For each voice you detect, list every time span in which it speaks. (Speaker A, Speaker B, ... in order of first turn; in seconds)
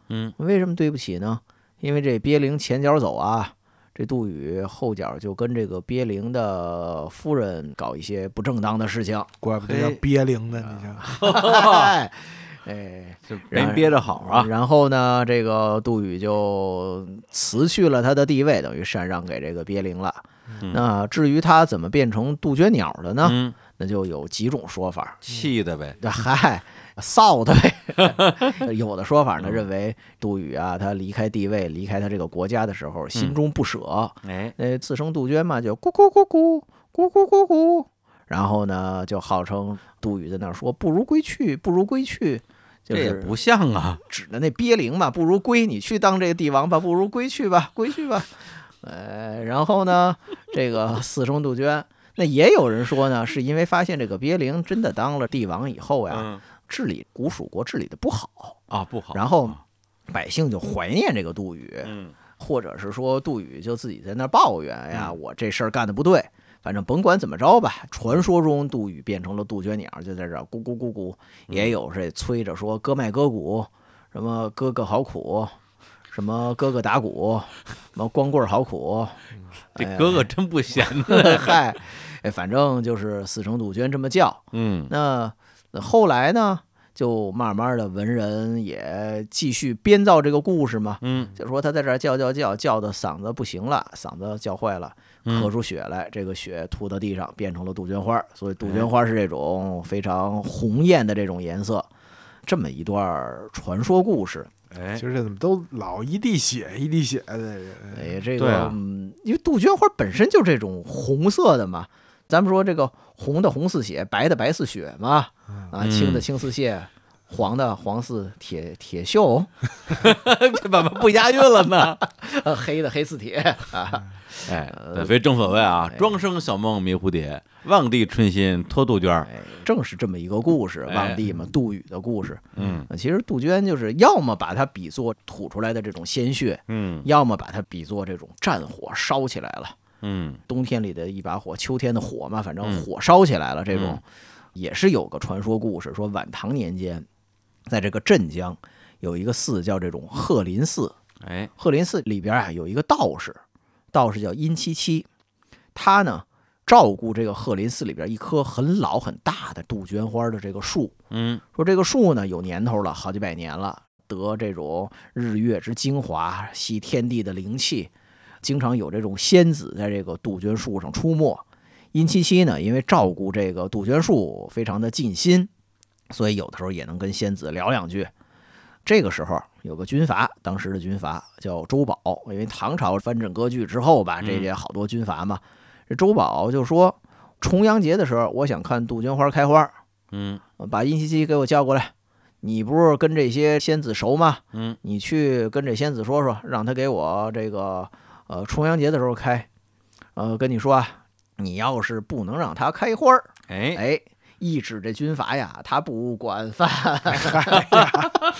Speaker A: 0.1-0.3, 9.6-10.0, 10.6-11.9, 13.3-14.5, 23.2-23.6, 25.3-26.0, 34.2-34.5, 42.9-44.0, 56.1-56.4, 58.7-59.6, 61.8-62.1, 71.5-71.7, 79.8-81.6, 84.5-84.9, 91.0-91.3, 98.6-98.9, 104.7-105.0, 108.4-108.8, 115.8-116.2, 119.9-122.0, 124.5-129.3, 130.9-131.2, 132.5-132.9, 136.7-137.1, 140.0-140.4, 143.7-144.0, 151.2-151.5, 161.1-161.4, 184.2-184.5, 190.1-190.4, 194.5-194.8, 203.5-203.8
Speaker B: 0.4-9.3, 11.0-25.2, 26.0-43.3, 44.1-58.6, 59.1-59.6, 60.1-75.5, 76.1-79.2, 79.7-101.9, 102.5-104.5, 107.9-119.5, 122.1-126.1, 129.2-139.8, 140.5-144.0, 144.5-147.1, 147.7-150.9, 151.6-153.4, 153.9-155.1, 155.7-160.9, 161.5-167.9, 168.4-171.4, 171.9-175.5, 176.1-178.1, 178.8-189.7, 190.6-199.5, 200.2-208.0
Speaker C: 9.4-11.0, 105.0-108.2, 207.2-208.1